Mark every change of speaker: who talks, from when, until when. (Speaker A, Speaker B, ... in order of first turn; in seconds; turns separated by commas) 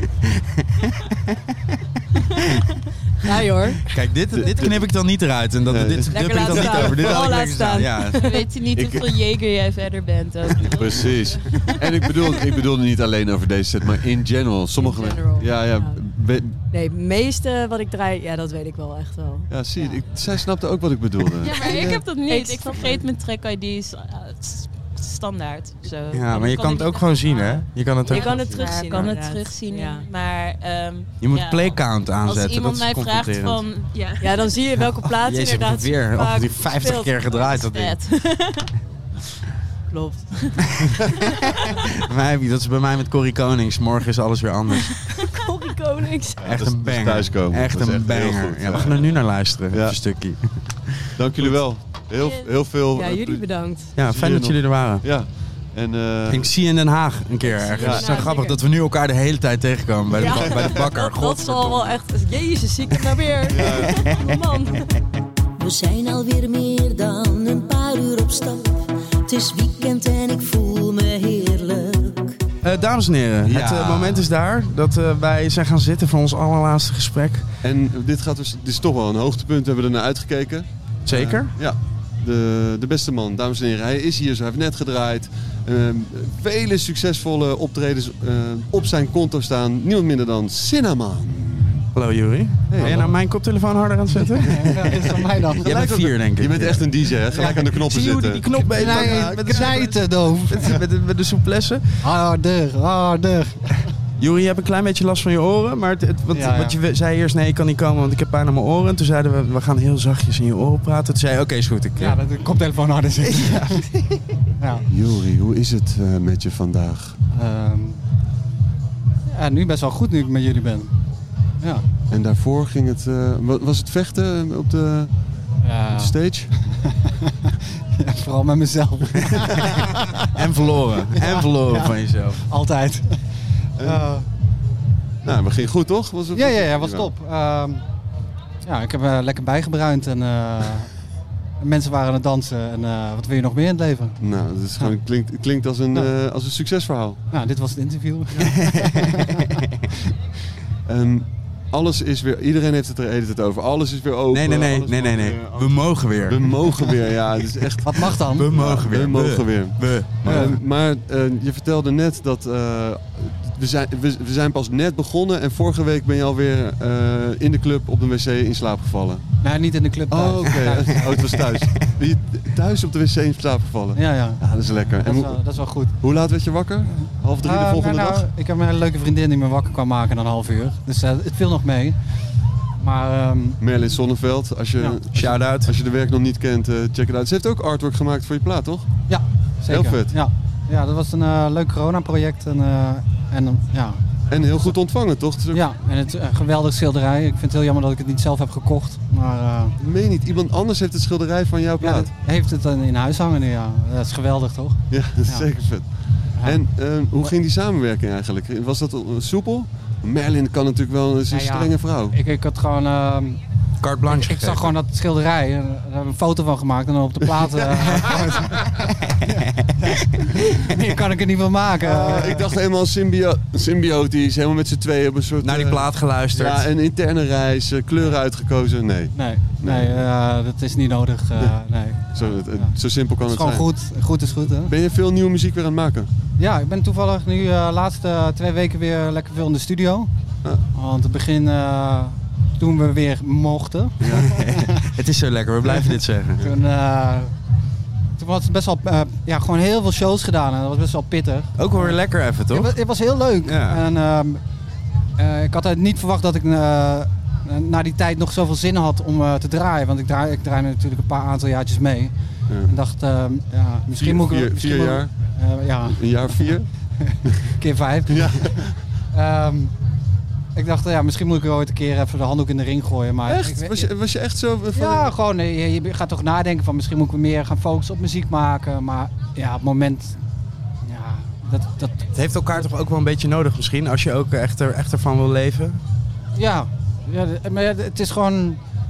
Speaker A: 3.2-3.9, Speaker B: 3.9-8.3, Speaker C: 4.3-4.7, Speaker C: 5.7-7.3, Speaker A: 6.1-8.4, Speaker D: 7.7-11.7, Speaker C: 8.8-9.1, Speaker C: 10.6-16.6, Speaker A: 14.8-16.0, Speaker A: 16.7-20.1, Speaker C: 19.5-22.0, Speaker D: 21.4-34.6, Speaker A: 21.6-23.0, Speaker B: 26.1-29.1, Speaker A: 28.1-30.1, Speaker B: 31.2-33.7, Speaker A: 34.2-37.3, Speaker B: 35.0-38.0, Speaker D: 37.3-38.7, Speaker A: 39.9-40.4, Speaker B: 41.6-45.1, Speaker A: 45.2-46.5, Speaker C: 46.4-50.0, Speaker B: 46.4-51.6, Speaker C: 51.2-53.5, Speaker A: 52.8-53.9, Speaker B: 53.9-55.0, Speaker C: 54.0-56.5, Speaker B: 56.3-62.0, Speaker A: 57.4-58.6, Speaker C: 57.8-58.2, Speaker A: 60.1-64.9, Speaker C: 60.1-60.9, Speaker C: 63.5-64.2, Speaker E: 65.6-72.4, Speaker B: 72.6-77.5, Speaker C: 73.5-74.3, Speaker C: 77.6-91.9, Speaker B: 81.1-81.5, Speaker B: 91.9-95.0, Speaker C: 92.7-93.2, Speaker C: 94.5-95.0, Speaker F: 94.5-95.7, Speaker B: 95.6-102.1, Speaker C: 95.6-100.1, Speaker F: 97.3-97.7, Speaker F: 98.6-100.8, Speaker F: 102.0-103.8, Speaker B: 104.2-112.2, Speaker F: 106.3-106.8, Speaker F: 112.0-113.8, Speaker B: 113.3-113.9, Speaker C: 114.9-117.2, Speaker F: 117.3-118.0, Speaker F: 119.3-120.9, Speaker C: 122.1-125.1, Speaker F: 125.6-130.3, Speaker C: 125.9-126.5, Speaker B: 130.3-132.4, Speaker F: 131.1-133.2, Speaker F: 133.8-134.3, Speaker C: 133.8-134.1, Speaker C: 135.2-137.1, Speaker F: 136.3-137.8, Speaker F: 138.6-140.9, Speaker F: 141.6-145.0, Speaker C: 144.2-147.2, Speaker F: 147.3-149.6, Speaker B: 148.4-149.4, Speaker C: 150.9-169.3, Speaker B: 154.3-156.9, Speaker F: 157.8-158.5, Speaker B: 158.3-160.6, Speaker F: 160.2-160.6, Speaker F: 169.4-171.2, Speaker C: 170.1-178.3, Speaker B: 170.7-171.8, Speaker F: 173.9-176.0, Speaker F: 176.8-182.0, Speaker F: 182.8-183.6, Speaker C: 183.6-188.9, Speaker F: 184.8-185.4, Speaker B: 185.1-185.7, Speaker F: 189.1-194.8, Speaker C: 189.7-190.1, Speaker C: 194.3-195.6, Speaker F: 195.5-199.7, Speaker C: 199.8-202.1, Speaker F: 201.8-205.6, Speaker C: 204.9-212.2, Speaker F: 206.3-207.4, Speaker F: 211.3-213.4, Speaker B: 213.8-214.7, Speaker F: 214.1-222.5, Speaker C: 221.8-230.1, Speaker B: 225.4-226.7, Speaker F: 229.1-234.7, Speaker C: 232.1-233.7, Speaker C: 234.6-236.1, Speaker F: 236.4-240.1, Speaker F: 240.7-244.8, Speaker B: 244.1-246.5, Speaker F: 245.7-247.3, Speaker F: 248.2-254.4, Speaker B: 251.6-252.8, Speaker B: 253.4-253.8, Speaker F: 255.2-262.1, Speaker C: 262.5-262.7, Speaker F: 262.6-268.5, Speaker C: 264.0-265.1, Speaker C: 265.9-266.6, Speaker C: 268.1-268.7, Speaker F: 269.1-269.7, Speaker F: 270.6-273.9, Speaker C: 273.3-275.1, Speaker F: 274.7-280.2, Speaker F: 280.9-282.0, Speaker B: 282.1-285.8, Speaker F: 286.4-288.6